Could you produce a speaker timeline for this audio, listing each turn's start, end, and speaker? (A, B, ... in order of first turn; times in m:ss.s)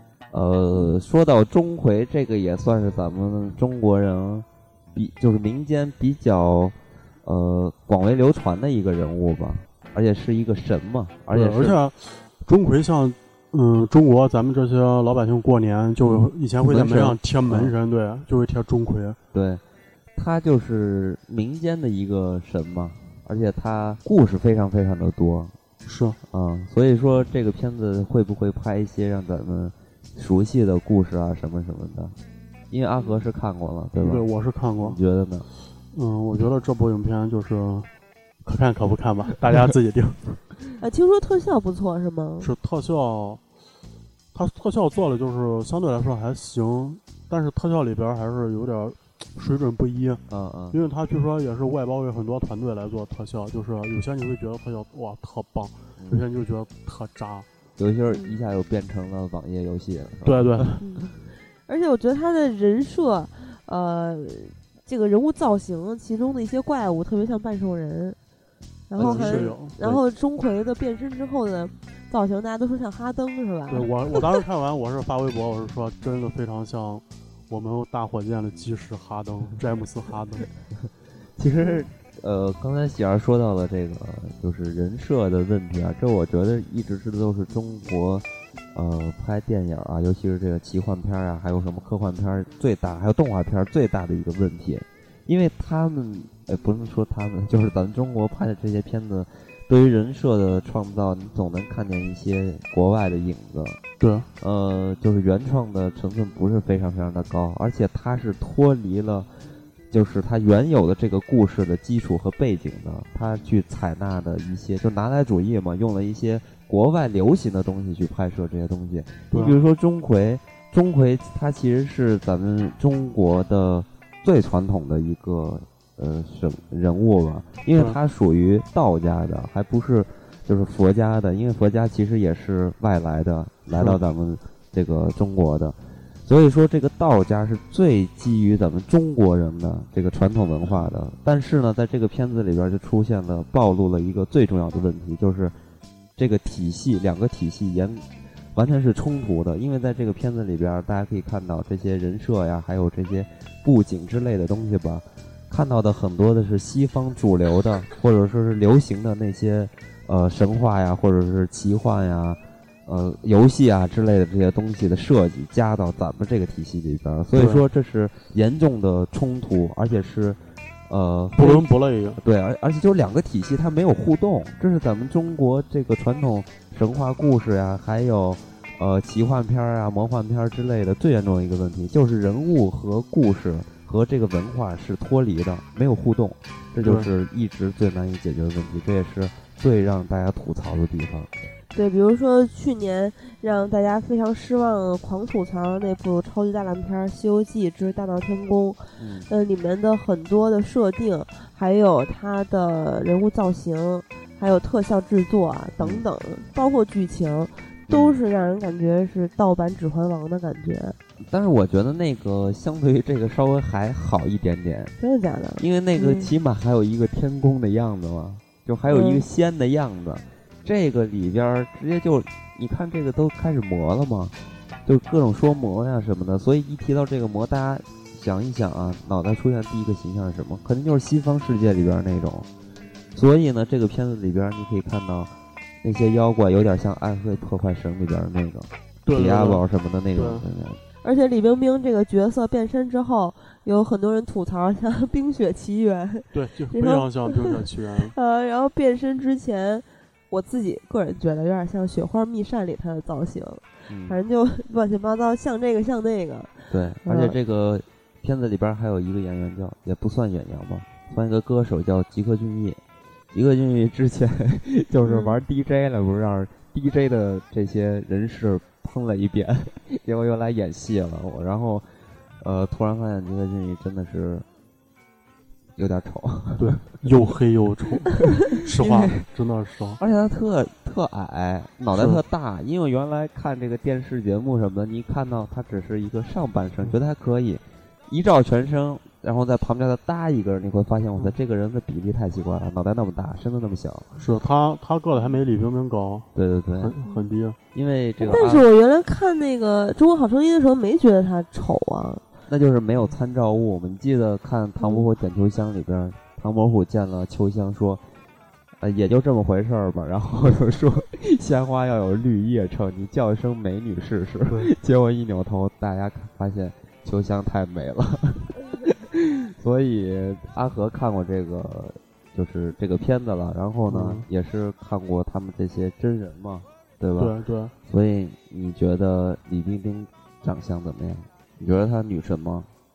0:00.3-0:11.8 A
0:11.3-0:19.2 B
0:16.7-0:17.7 A
0:19.3-0:19.6 A
0:20.1-0:25.5 A
0:25.8-0:26.2 B
0:26.3-0:32.1 A
0:32.7-0:34.2 A
0:33.0-0:33.2 C
0:34.0-0:35.0 B
0:34.8-0:35.5 A
0:35.9-0:37.9 B
0:38.4-0:40.4 B
0:40.8-0:42.5 C
0:42.4-0:43.4 B
0:44.3-0:57.5 B
0:50.3-0:50.8 A
0:56.0-0:56.2 A
0:57.8-1:00.7 A
0:58.1-0:58.4 C
1:00.2-1:00.8 B
1:00.8-1:01.1 C
1:01.7-1:08.2 C
1:08.9-1:14.2 C
1:09.0-1:09.5 A
1:09.0-1:10.0 B
1:13.7-1:20.5 B
1:21.4-1:43.8 A
1:21.6-1:21.8 C
1:44.0-1:44.3 B
1:44.4-1:49.3 A
1:49.9-2:25.5 A
1:59.3-1:59.6 B
2:13.7-2:14.0 B
2:26.2-2:51.7 A
2:47.3-2:47.6 B
2:51.3-2:52.2 B
2:52.2-3:11.3 A
3:06.8-3:07.1 B
3:11.7-3:31.0 C
3:19.0-3:19.3 A
3:27.9-3:28.2 A
3:31.2-3:34.9 A
3:35.0-3:36.3 C
3:35.6-3:44.3 A
3:38.9-3:39.2 C
3:44.8-3:52.5 A
3:53.1-4:00.8 A
3:59.0-4:00.4 B
4:01.0-4:07.5 C
4:06.3-4:08.1 B
4:08.1-4:16.5 C
4:13.9-4:14.2 A
4:16.7-4:22.8 A
4:17.0-4:17.3 C
4:23.3-4:31.8 A
4:25.0-4:25.4 C
4:32.4-4:34.4 A
4:35.8-4:36.8 A
4:36.6-4:40.0 B
4:38.8-4:39.2 A
4:40.0-4:54.1 A
4:41.9-4:42.2 B
4:54.2-4:57.6 B
4:56.3-4:56.9 A
4:57.7-4:58.6 A
4:58.2-5:02.2 C
5:02.5-5:08.0 A
5:04.8-5:05.1 C
5:08.8-5:27.3 A
5:14.5-5:14.7 B
5:23.9-5:24.2 B
5:27.2-5:27.7 B
5:27.8-5:32.7 A